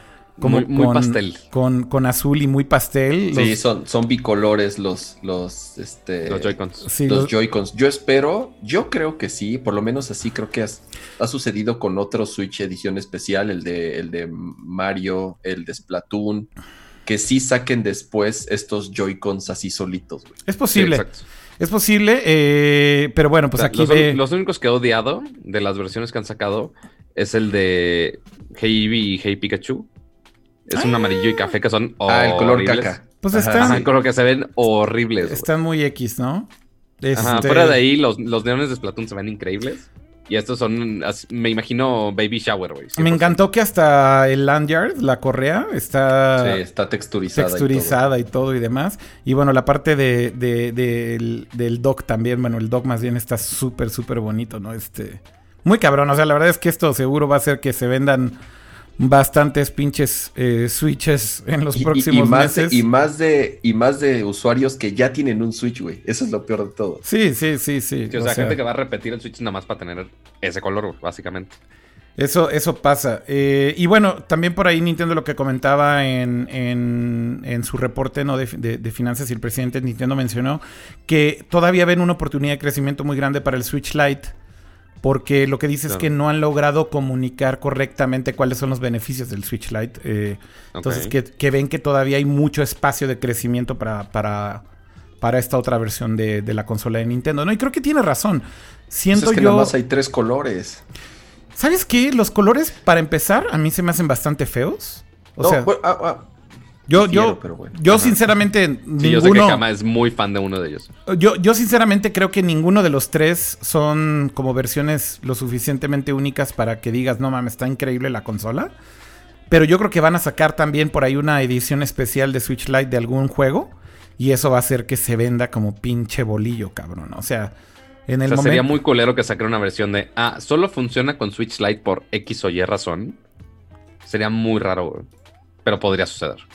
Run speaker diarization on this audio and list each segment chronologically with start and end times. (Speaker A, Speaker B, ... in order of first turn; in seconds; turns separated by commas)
Speaker A: 0.4-1.4, Speaker B: 0.4-3.6, Speaker C: 3.3-16.5, Speaker A: 6.3-6.8, Speaker B: 6.8-7.3, Speaker C: 17.0-20.4, Speaker B: 20.4-21.1, Speaker A: 20.7-21.2, Speaker B: 21.6-24.2, Speaker A: 23.6-29.9, Speaker A: 30.7-32.9, Speaker B: 30.7-31.5, Speaker C: 32.1-33.9, Speaker B: 33.2-33.9, Speaker A: 33.5-35.5, Speaker B: 35.2-36.5, Speaker B: 37.0-37.8, Speaker A: 37.1-43.4, Speaker B: 43.0-46.6, Speaker C: 46.4-48.0, Speaker B: 47.3-58.4, Speaker B: 59.0-62.8, Speaker C: 61.8-67.0, Speaker B: 67.0-68.6, Speaker A: 68.1-71.6, Speaker B: 72.2-84.3, Speaker B: 85.0-94.6, Speaker A: 90.7-91.1, Speaker B: 95.2-99.7, Speaker C: 99.1-100.8, Speaker B: 101.5-105.7, Speaker C: 105.4-106.3, Speaker B: 106.9-109.6, Speaker C: 106.9-108.1, Speaker A: 109.0-110.9, Speaker B: 111.1-118.7, Speaker B: 119.5-127.5, Speaker B: 128.1-128.7, Speaker A: 128.3-133.2, Speaker A: 134.1-135.1, Speaker A: 135.6-136.4